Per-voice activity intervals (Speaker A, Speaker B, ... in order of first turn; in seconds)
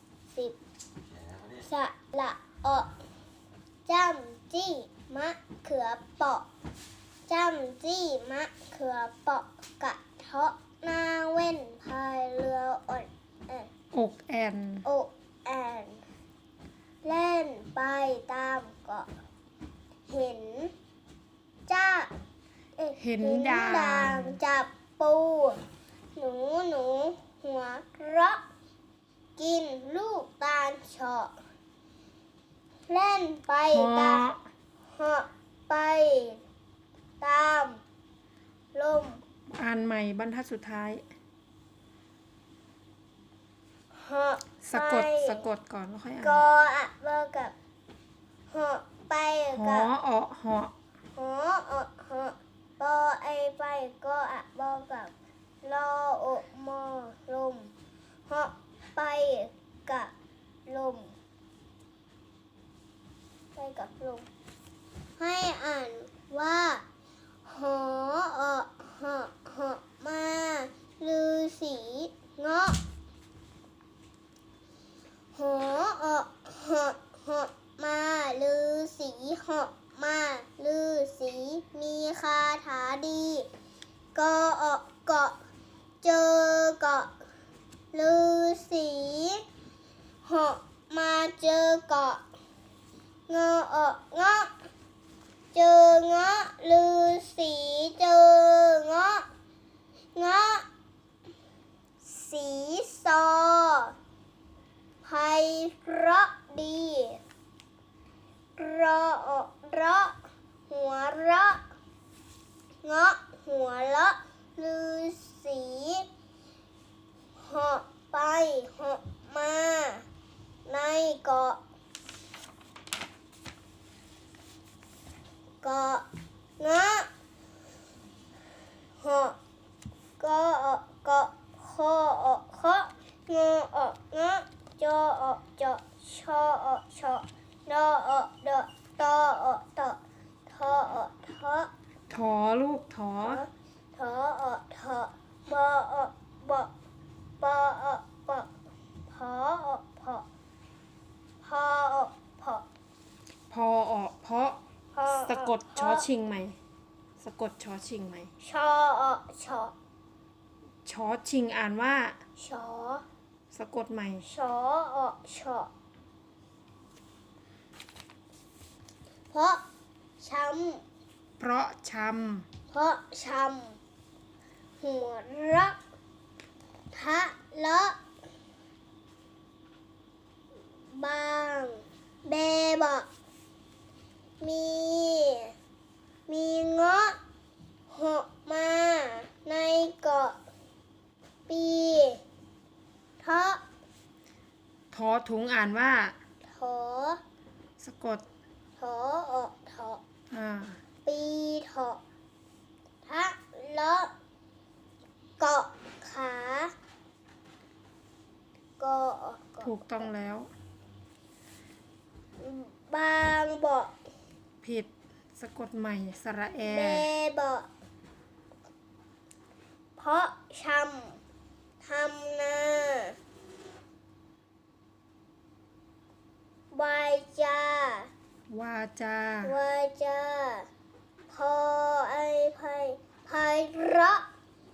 Speaker A: 1.5-2.9, 3.9-6.5, 7.3-13.7, 14.8-16.0, 17.0-19.1, 20.1-20.7, 21.7-22.1, 22.8-25.6, 26.1-28.4, 29.4-31.3, 32.9-34.2, 34.9-36.4, 37.2-37.8, 38.7-39.2, 43.9-45.5, 46.2-47.5, 48.5-49.9, 51.1-57.7, 58.3-60.1, 60.6-61.1, 63.5-64.3, 65.2-66.8, 67.4-72.8, 75.3-83.5, 84.1-85.3, 86.0-87.1, 87.9-89.4, 90.2-92.2, 93.3-94.5, 95.5-99.2, 100.1-100.7, 102.0-103.9, 105.0-107.2, 108.5-110.2, 110.7-111.6, 112.8-116.0, 117.4-120.0, 120.7-121.6, 125.6-126.0, 126.6-127.1, 129.0-129.3, 130.2-141.7, 143.2-146.7, 147.4-148.5, 149.1-150.3, 151.4-152.7, 154.9-156.1, 158.4-159.7, 162.4-163.0, 164.2-165.7, 169.3-169.6, 170.2-170.8, 172.7-173.8, 174.8-175.8, 176.9-178.0, 180.9-183.1, 184.4-185.5, 186.3-187.2, 187.9-190.4, 191.5-192.2, 193.2-193.6, 196.5-197.2, 198.8-200.0, 201.0-202.0, 203.0-204.1, 205.4-206.7, 208.8-209.8, 212.4-213.9, 216.6-217.7, 220.0-221.2, 221.8-223.2, 226.7-228.1, 229.4-230.7, 231.3-234.2
Speaker B: 13.9-14.8, 23.0-24.4, 33.7-34.4, 39.5-41.0, 44.6-46.4, 49.5-50.7, 142.1-143.4, 153.5-156.6, 157.2-158.3, 160.8-162.2, 163.5-164.2, 171.4-172.5, 194.9-196.1, 197.8-198.2, 200.3-200.8, 209.6-210.5, 214.6-217.1, 228.5-229.5